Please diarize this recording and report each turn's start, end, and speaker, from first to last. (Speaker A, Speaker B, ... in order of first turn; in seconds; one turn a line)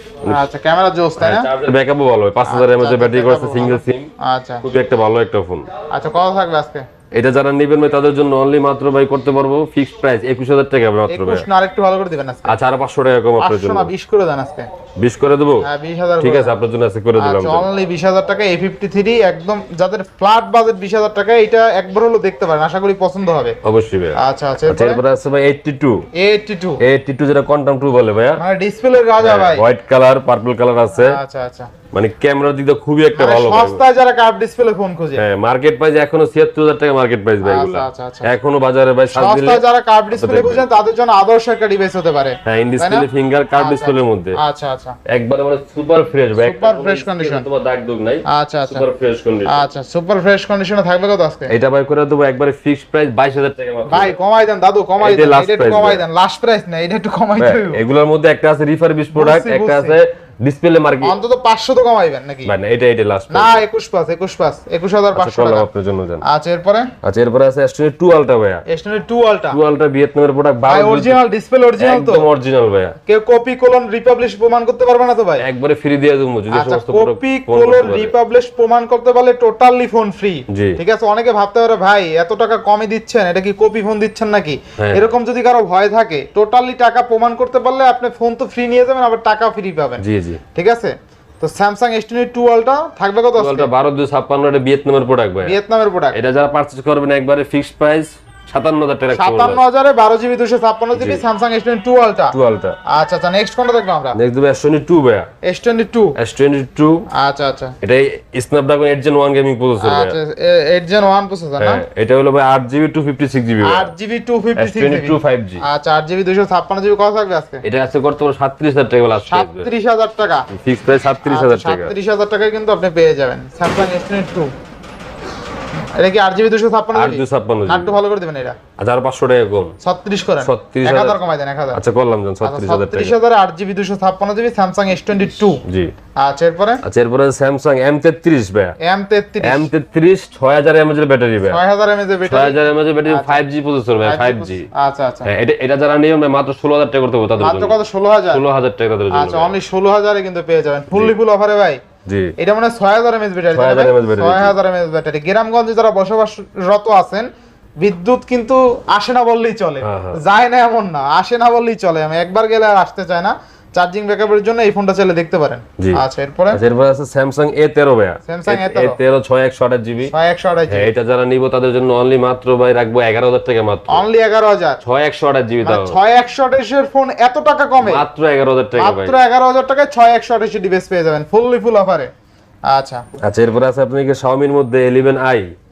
Speaker A: 0.3-1.5
Speaker B: 1.2-4.1
Speaker A: 2.5-4.6
Speaker B: 4.6-5.7
Speaker A: 5.9-6.9
Speaker B: 7.1-11.5
Speaker A: 11.1-12.6
Speaker B: 12.5-13.9
Speaker A: 13.4-14.7
Speaker B: 15.0-15.7
Speaker A: 15.6-16.5
Speaker B: 16.2-17.7
Speaker A: 17.2-23.6
Speaker B: 23.6-26.1
Speaker A: 24.2-25.0
Speaker A: 26.1-26.8
Speaker B: 26.8-28.4
Speaker A: 28.4-29.6
Speaker B: 29.2-31.2
Speaker A: 30.9-31.7
Speaker B: 31.9-33.8
Speaker A: 33.1-35.2
Speaker B: 35.2-40.6
Speaker A: 37.4-38.3
Speaker A: 39.1-45.0
Speaker B: 42.5-44.4
Speaker B: 45.1-49.6
Speaker A: 46.4-47.5
Speaker A: 48.3-48.9
Speaker A: 49.5-51.5
Speaker B: 51.5-54.2
Speaker A: 53.9-57.8
Speaker B: 55.0-56.0
Speaker B: 57.4-61.1
Speaker A: 59.1-60.0
Speaker A: 61.0-62.5
Speaker B: 62.5-63.6
Speaker A: 63.3-65.7
Speaker B: 65.1-66.2
Speaker A: 66.2-66.9
Speaker B: 67.0-68.6
Speaker A: 68.7-69.6
Speaker B: 69.5-71.2
Speaker A: 70.7-72.3
Speaker B: 71.8-73.0
Speaker A: 73.1-75.5
Speaker B: 75.4-78.1
Speaker A: 76.5-93.7
Speaker B: 80.5-80.8
Speaker B: 84.8-85.0
Speaker B: 90.0-90.4
Speaker B: 93.4-95.6
Speaker A: 95.4-96.2
Speaker B: 96.1-99.6
Speaker A: 99.1-104.2
Speaker B: 101.0-101.2
Speaker B: 102.3-102.8
Speaker B: 104.1-105.3
Speaker A: 105.4-106.2
Speaker B: 106.2-107.1
Speaker A: 107.1-107.8
Speaker B: 107.8-110.2
Speaker A: 109.8-111.8
Speaker B: 111.6-113.9
Speaker A: 113.6-117.6
Speaker B: 114.6-115.6
Speaker B: 117.6-119.7
Speaker A: 119.3-120.5
Speaker B: 120.5-121.9
Speaker A: 121.2-124.5
Speaker A: 126.0-128.6
Speaker B: 126.9-128.0
Speaker B: 128.8-129.8
Speaker A: 129.8-131.8
Speaker B: 130.4-131.2
Speaker B: 131.7-133.2
Speaker A: 132.4-135.6
Speaker B: 135.7-135.9
Speaker A: 136.2-136.8
Speaker B: 136.8-138.8
Speaker A: 138.8-139.7
Speaker B: 139.4-141.6
Speaker A: 141.5-143.4
Speaker B: 142.2-144.7
Speaker A: 144.0-145.3
Speaker B: 145.2-147.8
Speaker A: 147.4-148.4
Speaker B: 148.3-149.6
Speaker A: 149.1-151.8
Speaker B: 152.1-152.3
Speaker A: 152.4-166.6
Speaker B: 153.5-154.5
Speaker B: 159.8-160.2
Speaker B: 165.8-170.1
Speaker A: 168.3-169.0
Speaker A: 170.1-170.9
Speaker B: 170.7-174.1
Speaker A: 173.9-174.8
Speaker B: 174.8-176.0
Speaker A: 175.6-178.1
Speaker B: 177.8-179.2
Speaker A: 178.8-182.1
Speaker A: 182.7-183.0
Speaker B: 183.2-185.5